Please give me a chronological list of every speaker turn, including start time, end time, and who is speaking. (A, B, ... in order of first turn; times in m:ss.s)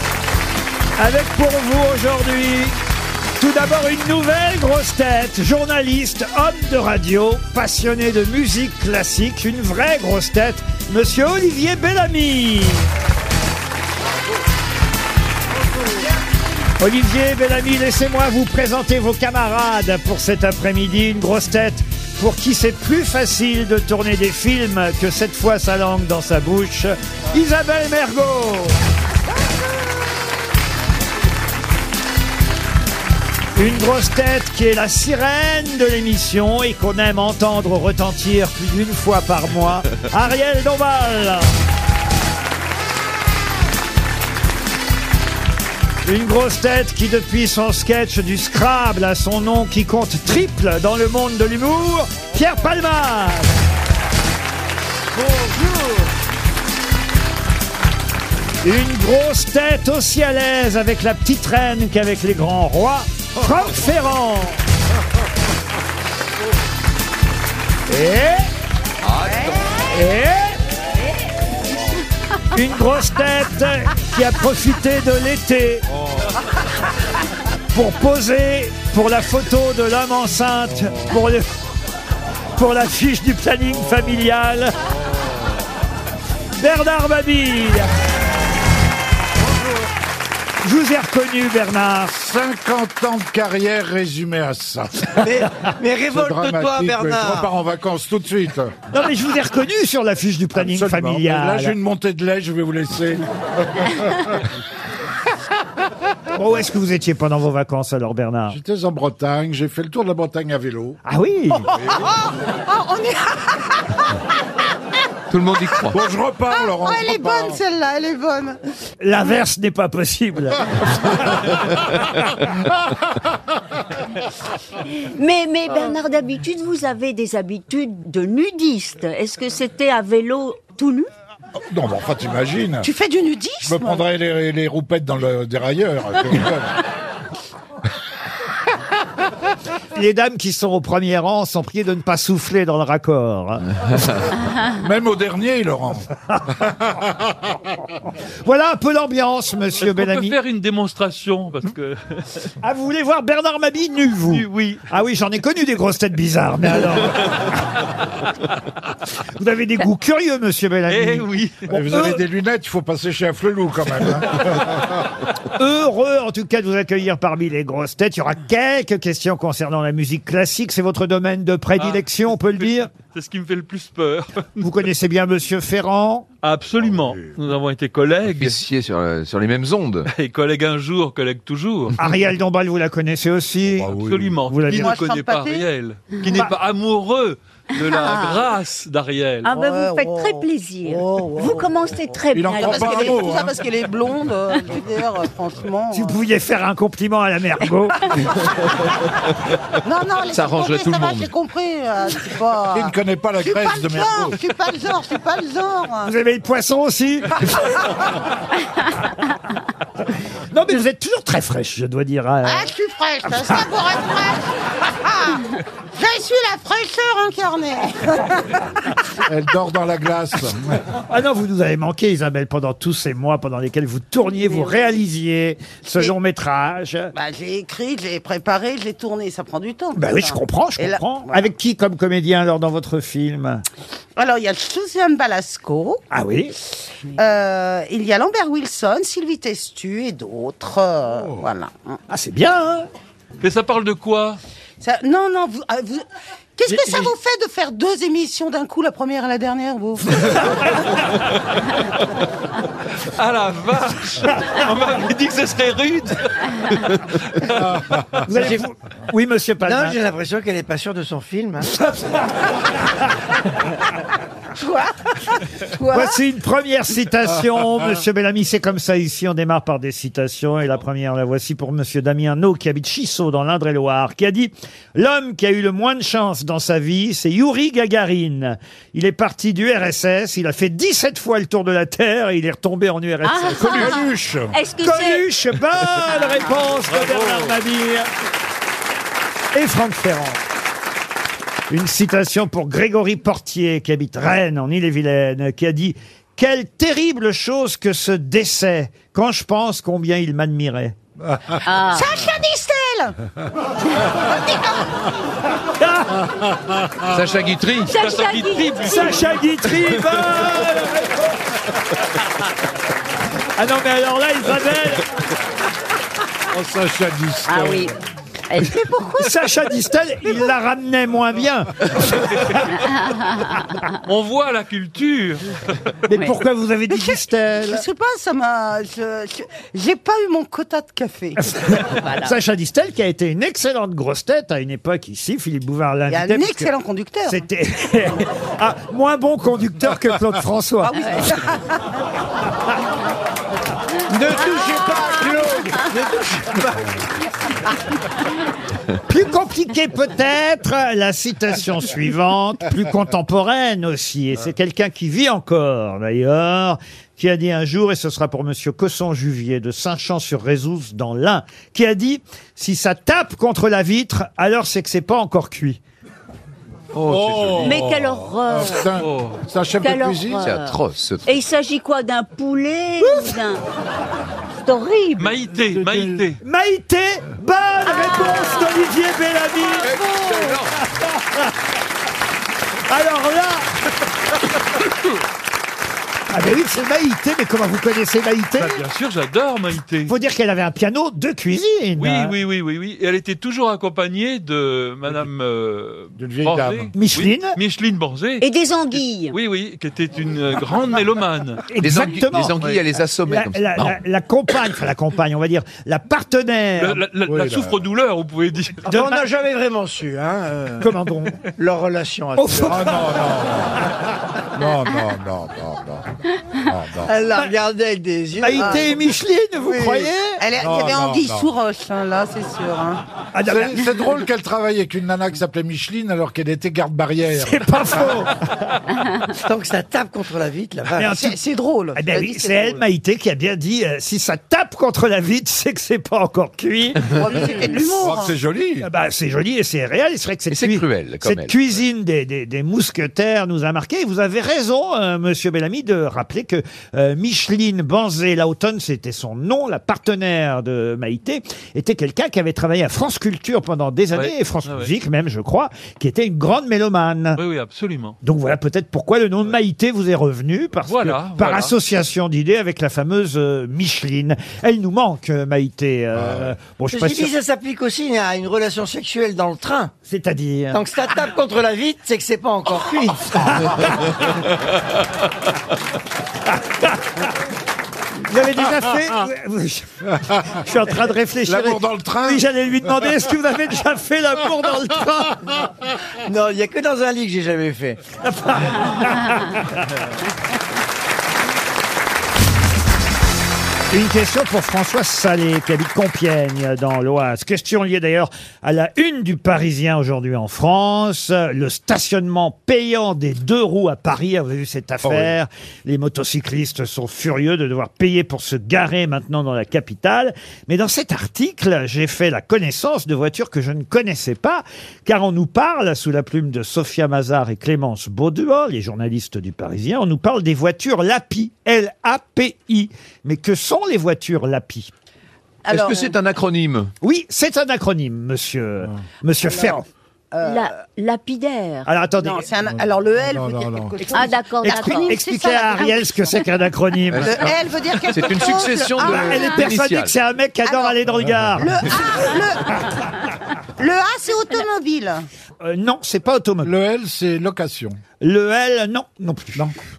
0:01.0-0:02.8 A
0:03.4-0:12.8 A
0:16.8-0:28.8 A
0:29.3-0:30.2 B
0:33.5-0:41.5 A
0:46.0-0:53.6 A
0:58.6-1:04.6 A
1:07.9-1:08.5 A
1:09.0-1:09.6 C
1:09.2-1:09.6 B
1:09.9-1:10.6 A
1:12.5-1:15.8 A
1:17.7-1:21.5 A
1:22.6-1:24.7 A
1:26.6-1:27.9 A
1:30.6-1:32.1 A
1:32.1-1:35.3 D
1:35.2-1:37.5 E
1:36.1-1:38.7 D
1:38.9-1:41.7 A
1:40.6-1:44.4 D
1:46.3-1:48.6 A
1:48.5-1:51.0 D
1:51.0-1:51.7 A
1:51.6-1:54.1 B
1:55.3-1:56.0 C
1:55.9-1:57.6 D
1:56.5-1:58.6 B
1:59.0-2:01.2 A
2:05.0-2:11.1 F
2:11.7-2:12.9 D
2:12.8-2:14.0 B
2:13.6-2:16.8 D
2:19.9-2:23.7 A
2:24.7-2:27.3 D
2:28.4-2:30.4 A
2:29.8-2:32.5 G
2:32.6-2:37.5 A
2:34.3-2:34.8 G
2:39.4-2:42.2 A
2:40.9-2:41.7 G
2:41.7-2:45.0 D
2:45.6-2:52.9 A
2:51.8-2:54.7 G
2:54.6-2:56.2 A
2:56.4-2:58.6 G
2:58.2-3:00.1 C
3:00.1-3:02.0 G
3:02.0-3:03.9 A
3:03.8-3:04.4 D
3:03.9-3:09.5 G
3:04.4-3:04.9 A
3:04.7-3:05.6 B
3:08.0-3:08.5 B
3:09.4-3:13.2 F
3:09.5-3:11.8 B
3:12.3-3:13.5 D
3:12.5-3:16.1 B
3:15.9-3:18.1 A
3:19.8-3:26.1 B
3:20.3-3:21.3 C
3:22.7-3:24.4 D
3:26.0-3:27.6 A
3:27.6-3:27.8 B
3:30.5-3:32.7 A
3:32.4-3:35.4 B
3:33.2-3:33.6 A
3:35.9-3:38.6 B
3:39.2-3:40.8 D
3:41.1-3:47.1 A
3:47.1-3:51.5 B
3:49.9-3:53.6 A
3:54.2-3:56.0 B
3:56.1-3:56.5 A
3:57.1-4:02.0 B
4:01.1-4:01.4 D
4:02.1-4:02.9 A
4:03.4-4:04.4 G
4:04.8-4:06.0 B
4:06.6-4:10.7 B
4:06.7-4:07.1 A
4:13.0-4:16.7 G
4:17.3-4:17.8 G
4:17.7-4:18.3 D
4:18.3-4:20.0 A
4:18.3-4:18.6 E
4:19.6-4:21.8 E
4:24.6-4:25.1 B
4:25.8-4:26.1 B
4:25.9-4:44.0 A
4:43.2-4:45.2 F
4:43.7-4:44.5 D
4:44.8-4:48.1 A
4:46.1-4:46.6 F
4:46.9-4:47.6 G
4:49.5-4:50.4 A
4:51.7-5:01.0 A
5:01.6-5:02.1 F
5:01.9-5:03.2 B
5:04.1-5:04.8 B
5:05.8-5:06.2 A
5:07.1-5:08.0 C
5:07.8-5:09.4 F
5:07.9-5:09.3 G
5:08.8-5:11.2 A
5:13.6-5:15.0 A
5:16.5-5:17.9 D
5:17.5-5:17.9 F
5:18.5-5:18.8 F
5:18.6-5:19.4 B
5:19.2-5:22.4 A
5:22.8-5:23.5 F
5:24.0-5:25.4 G
5:26.1-5:27.8 A
5:26.9-5:31.4 B
5:31.5-5:36.7 A
5:32.0-5:32.3 F
5:36.1-5:37.4 B
5:37.2-5:41.5 A
5:40.8-5:41.6 B
5:44.1-5:47.0 E
5:49.1-6:05.8 A
6:06.9-6:07.8 C
6:07.0-6:10.5 D
6:07.6-6:08.8 F
6:09.0-6:09.4 G
6:09.8-6:13.6 F
6:10.4-6:11.2 C
6:14.6-6:15.3 F
6:15.2-6:16.4 G
6:15.7-6:16.2 D
6:16.4-6:19.9 A
6:17.9-6:18.7 F
6:19.7-6:20.6 B
6:19.9-6:20.7 C
6:20.9-6:21.5 A
6:22.9-6:23.7 A
6:26.3-6:28.8 A
6:28.6-6:30.1 G
6:30.1-6:32.3 A
6:32.0-6:38.4 G
6:36.2-6:36.9 D
6:36.9-6:37.6 A
6:38.4-6:39.4 F
6:39.3-6:41.6 G
6:41.7-6:47.0 A
6:41.8-6:44.0 C
6:46.8-6:48.8 G
6:47.2-6:47.8 D
6:48.8-6:50.9 E
6:48.9-6:49.2 A
6:50.8-6:51.4 A
6:51.6-6:52.9 E
6:52.4-6:53.0 A
6:52.6-6:53.9 D
6:54.5-6:57.1 D
6:57.1-7:00.1 E
6:58.4-7:00.4 A
6:58.6-6:58.8 B
7:00.4-7:03.0 B
7:00.6-7:01.5 D
7:03.3-7:04.0 A
7:03.4-7:08.2 D
7:07.4-7:08.8 A
7:09.3-7:11.2 E
7:11.0-7:11.4 A
7:11.0-7:12.8 B
7:11.9-7:17.0 A
7:17.1-7:18.4 B
7:17.7-7:18.9 D
7:18.8-7:37.4 A
7:20.5-7:21.5 C
7:34.1-7:34.9 G
7:37.4-7:38.2 G
7:38.2-7:47.3 A
7:40.9-7:41.7 G
7:46.1-7:46.5 D
7:46.9-7:49.9 E
7:50.0-7:50.8 A
7:50.7-7:53.6 E
7:53.6-7:53.8 A
7:58.2-8:05.4 A
8:00.2-8:00.6 D
8:01.4-8:02.4 D
8:06.2-8:08.0 E
8:08.2-8:09.8 A
8:13.9-8:44.9 A
8:25.0-8:25.3 D
8:45.7-8:46.2 B
8:45.7-8:46.9 C
8:47.0-8:49.8 A
8:49.4-8:50.7 B
8:50.4-8:51.9 F
8:51.8-8:52.5 A
8:52.2-8:56.5 B
8:52.6-8:54.0 D
8:54.1-8:55.2 F
8:54.6-8:57.4 A
8:57.1-8:57.5 C
8:57.2-8:59.6 B
8:58.1-9:00.1 C
8:59.0-9:01.9 A
9:00.6-9:01.0 B
9:01.6-9:03.0 B
9:03.8-9:05.3 B
9:05.6-9:06.7 A
9:06.6-9:08.0 D
9:08.2-9:09.7 A